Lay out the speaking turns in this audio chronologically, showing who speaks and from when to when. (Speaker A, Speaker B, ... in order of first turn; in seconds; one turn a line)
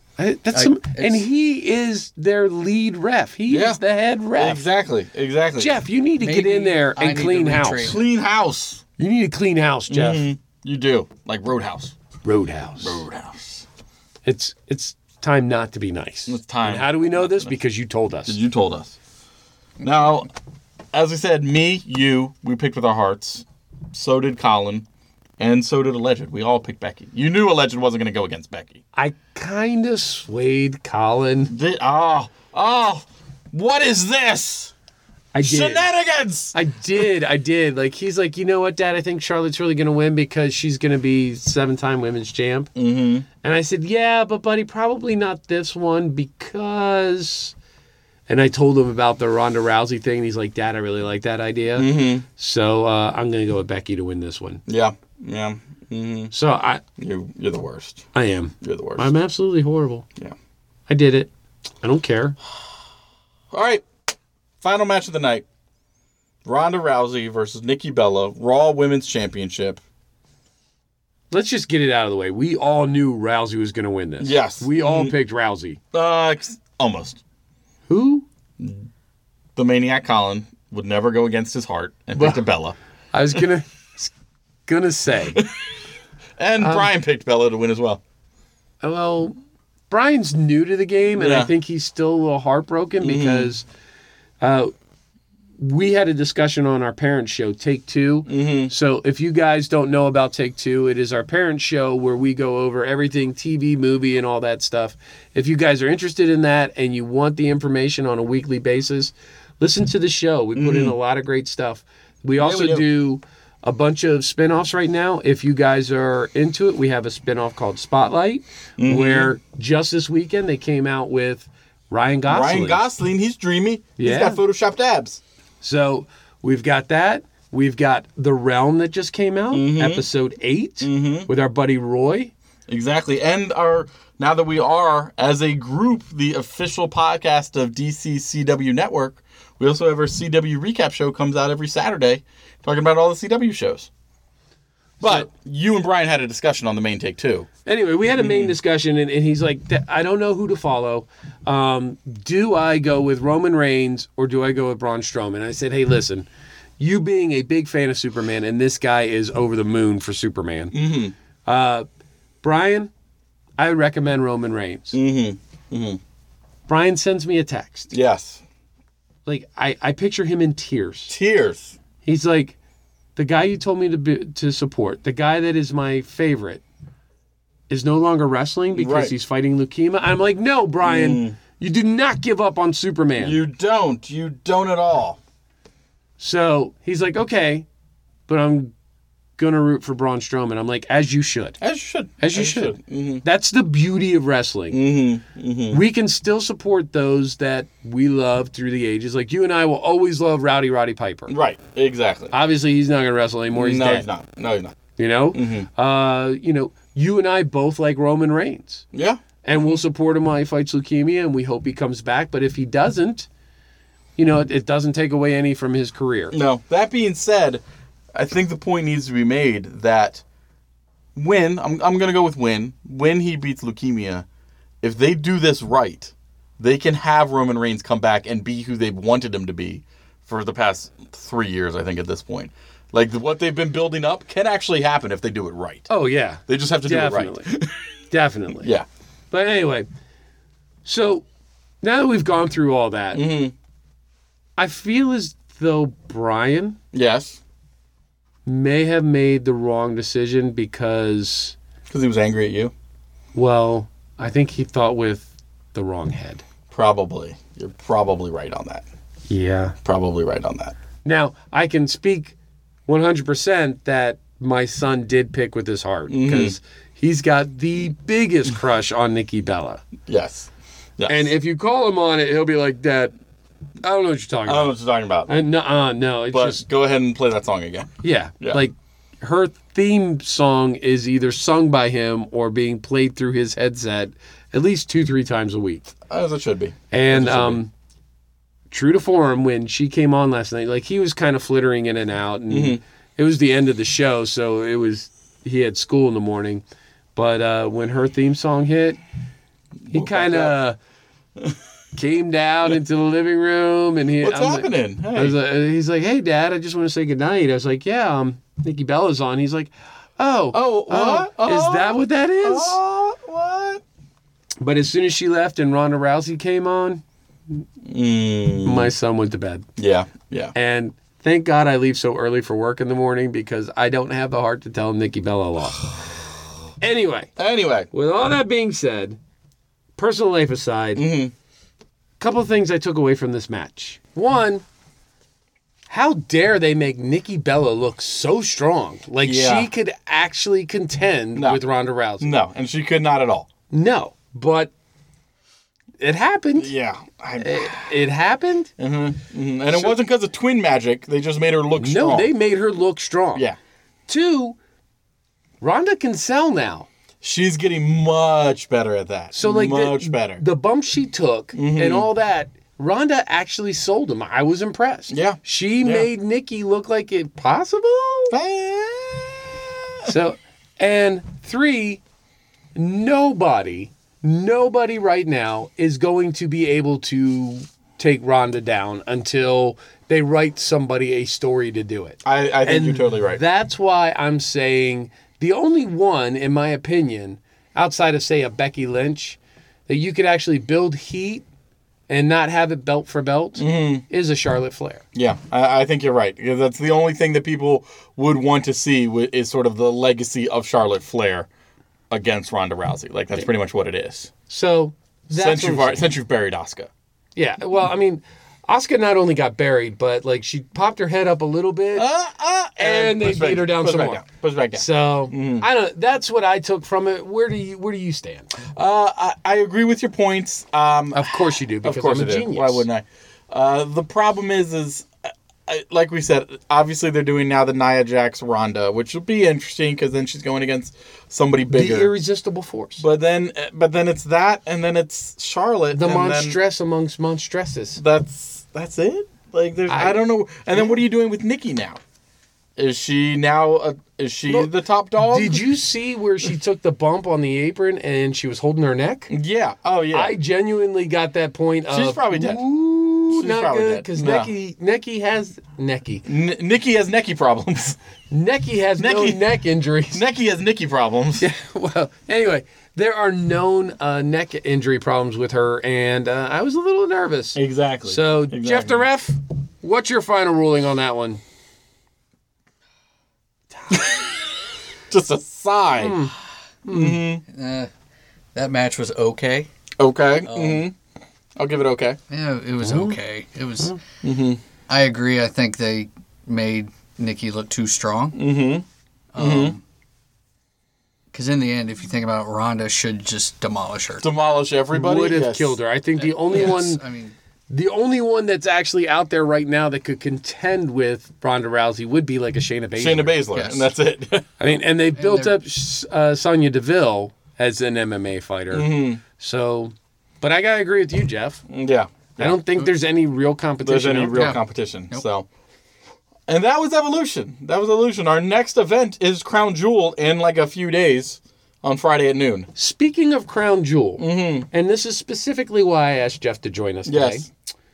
Speaker A: 0.2-4.6
Speaker B: 0.5-1.2
Speaker C: 3.5-3.8
Speaker C: 4.4-5.8
Speaker A: 5.6-8.0
Speaker B: 6.2-8.0
Speaker C: 7.8-8.8
Speaker A: 9.0-10.3
Speaker C: 9.9-11.9
Speaker A: 12.2-13.0
Speaker C: 12.8-13.6
Speaker A: 14.2-18.4
Speaker C: 16.3-17.5
Speaker C: 18.3-18.9
Speaker C: 19.8-20.3
Speaker C: 20.9-24.9
Speaker C: 25.4-28.8
Speaker A: 28.9-31.5
Speaker C: 31.5-34.7
Speaker A: 35.3-35.9
Speaker C: 35.4-37.0
Speaker A: 36.5-42.7
Speaker C: 42.8-43.2
Speaker A: 43.4-47.5
Speaker A: 48.3-54.6
Speaker C: 51.8-52.2
Speaker C: 54.7-56.3
Speaker A: 56.3-56.8
Speaker C: 57.0-58.0
Speaker A: 58.1-60.0
Speaker C: 58.6-59.1
Speaker A: 60.9-61.3
Speaker A: 61.8-62.4
Speaker C: 63.5-63.8
Speaker C: 64.6-65.4
Speaker C: 66.4-69.8
Speaker A: 71.3-75.8
Speaker C: 74.2-75.1
Speaker C: 75.9-77.2
Speaker A: 77.9-78.2
Speaker C: 78.6-78.8
Speaker C: 79.5-82.8
Speaker A: 82.2-82.4
Speaker A: 83.1-84.1
Speaker A: 84.7-85.4
Speaker C: 86.4-88.0
Speaker A: 86.6-86.9
Speaker A: 88.8-89.3
Speaker A: 89.9-93.7
Speaker C: 91.2-91.5
Speaker C: 93.0-93.5
Speaker A: 94.4-94.7
Speaker A: 95.6-122.8
Speaker C: 98.3-98.7
Speaker C: 110.5-111.0
Speaker C: 112.4-112.8
Speaker C: 118.8-119.3
Speaker C: 122.3-125.2
Speaker A: 124.0-124.4
Speaker A: 125.6-132.3
Speaker C: 129.5-130.0
Speaker C: 130.8-131.3
Speaker C: 132.7-143.9
Speaker A: 145.0-145.3
Speaker C: 145.0-147.5
Speaker A: 147.7-156.2
Speaker C: 148.1-148.5
Speaker A: 156.8-160.7
Speaker C: 160.7-161.1
Speaker A: 161.4-161.8
Speaker A: 162.4-162.9
Speaker A: 163.6-164.9
Speaker C: 164.9-166.0
Speaker A: 166.7-167.9
Speaker C: 167.9-168.4
Speaker A: 169.2-171.1
Speaker C: 171.1-171.7
Speaker A: 172.0-172.5
Speaker A: 173.2-176.6
Speaker A: 177.7-183.4
Speaker C: 178.7-179.1
Speaker C: 180.8-181.3
Speaker C: 183.2-185.2
Speaker A: 186.2-187.7
Speaker A: 188.3-188.7
Speaker A: 189.4-191.6
Speaker C: 191.6-193.2
Speaker A: 192.2-194.8
Speaker C: 194.7-195.8
Speaker A: 195.7-201.3
Speaker C: 201.3-202.3
Speaker A: 202.3-204.1
Speaker C: 203.5-204.8
Speaker A: 205.0-208.8
Speaker C: 205.3-205.7
Speaker C: 208.9-209.8
Speaker A: 209.4-213.3
Speaker A: 214.2-216.3
Speaker C: 216.3-217.6
Speaker C: 218.1-220.2
Speaker C: 221.1-224.2
Speaker C: 224.8-235.9
Speaker A: 235.9-237.5
Speaker C: 236.5-237.8
Speaker A: 238.1-238.7
Speaker A: 239.3-239.9
Speaker A: 240.8-241.2
Speaker A: 241.8-243.2
Speaker C: 243.1-243.5
Speaker A: 244.6-246.8
Speaker C: 246.9-247.4
Speaker A: 248.4-251.5
Speaker C: 251.9-252.7
Speaker A: 253.3-256.4
Speaker C: 256.7-258.9
Speaker A: 259.3-259.8
Speaker C: 259.8-260.7
Speaker A: 261.0-262.3
Speaker A: 262.9-269.8
Speaker C: 266.1-266.6
Speaker C: 270.1-271.3
Speaker A: 271.1-273.1
Speaker A: 273.8-274.7
Speaker C: 274.4-275.3
Speaker A: 275.3-276.6
Speaker C: 276.3-278.6
Speaker A: 278.0-285.9
Speaker C: 286.1-287.6
Speaker A: 286.9-287.7
Speaker A: 288.7-296.6
Speaker C: 292.5-292.8
Speaker A: 297.1-299.0
Speaker C: 299.9-300.5
Speaker A: 299.9-300.8
Speaker A: 301.9-312.8
Speaker C: 304.2-305.4
Speaker C: 310.5-313.8
Speaker A: 314.6-317.6
Speaker C: 317.8-318.9
Speaker A: 318.6-319.6
Speaker C: 319.8-320.5
Speaker A: 320.5-325.9
Speaker A: 326.8-327.3
Speaker C: 327.4-327.9
Speaker A: 327.9-329.2
Speaker A: 330.0-331.0
Speaker C: 330.9-331.3
Speaker A: 332.2-334.6
Speaker A: 335.9-342.3
Speaker C: 339.2-339.7
Speaker C: 341.3-341.6
Speaker C: 342.2-343.5
Speaker A: 343.7-344.7
Speaker A: 346.0-346.7
Speaker C: 346.6-347.9
Speaker A: 347.4-348.7
Speaker C: 348.8-352.3
Speaker A: 351.8-353.4
Speaker A: 354.1-354.6
Speaker A: 355.6-356.9
Speaker C: 357.2-360.4
Speaker A: 359.3-368.3
Speaker C: 361.5-362.1
Speaker C: 365.1-366.1
Speaker C: 368.3-369.4
Speaker A: 370.0-372.0
Speaker A: 372.7-391.4
Speaker C: 382.2-383.4
Speaker A: 392.1-395.0
Speaker C: 393.6-394.0
Speaker C: 395.1-401.5
Speaker C: 402.1-404.3
Speaker A: 404.5-406.0
Speaker C: 405.3-406.9
Speaker A: 407.4-412.1
Speaker C: 411.9-415.6
Speaker A: 412.8-414.2
Speaker A: 414.7-418.5
Speaker C: 418.7-425.1
Speaker A: 421.1-422.8
Speaker C: 425.7-432.1
Speaker A: 431.7-433.0
Speaker C: 433.0-436.6
Speaker A: 435.9-438.0
Speaker C: 438.0-442.0
Speaker A: 439.9-440.2
Speaker A: 440.7-441.0
Speaker C: 442.8-445.6
Speaker A: 444.5-449.3
Speaker C: 449.3-450.3
Speaker A: 450.1-456.2
Speaker C: 451.9-452.6
Speaker C: 453.3-454.5
Speaker C: 456.2-457.9
Speaker A: 458.3-460.2
Speaker C: 459.0-459.4
Speaker C: 460.1-461.4
Speaker A: 461.4-471.4
Speaker C: 467.6-469.0
Speaker C: 473.9-474.2
Speaker C: 475.1-476.2
Speaker A: 476.0-476.3
Speaker A: 476.9-477.2
Speaker C: 476.9-477.4
Speaker B: 477.4-477.9
Speaker B: 478.5-479.7
Speaker C: 480.0-480.9
Speaker B: 480.4-480.9
Speaker C: 481.6-482.2
Speaker B: 482.3-483.9
Speaker A: 482.8-483.2
Speaker C: 484.2-484.6
Speaker B: 484.9-488.4
Speaker C: 488.3-488.8
Speaker B: 489.3-489.8
Speaker C: 489.4-489.8
Speaker B: 491.3-494.2
Speaker C: 494.2-495.8
Speaker A: 494.9-497.0
Speaker B: 496.2-497.3
Speaker A: 497.7-503.4
Speaker C: 503.0-504.5
Speaker B: 503.5-503.9
Speaker A: 504.6-511.6
Speaker B: 505.1-505.6
Speaker C: 508.7-509.2
Speaker C: 511.7-512.6
Speaker A: 512.4-514.5
Speaker C: 513.8-515.5
Speaker B: 514.3-515.2
Speaker C: 516.5-522.7
Speaker A: 522.7-527.5
Speaker C: 524.2-524.7
Speaker C: 527.0-527.5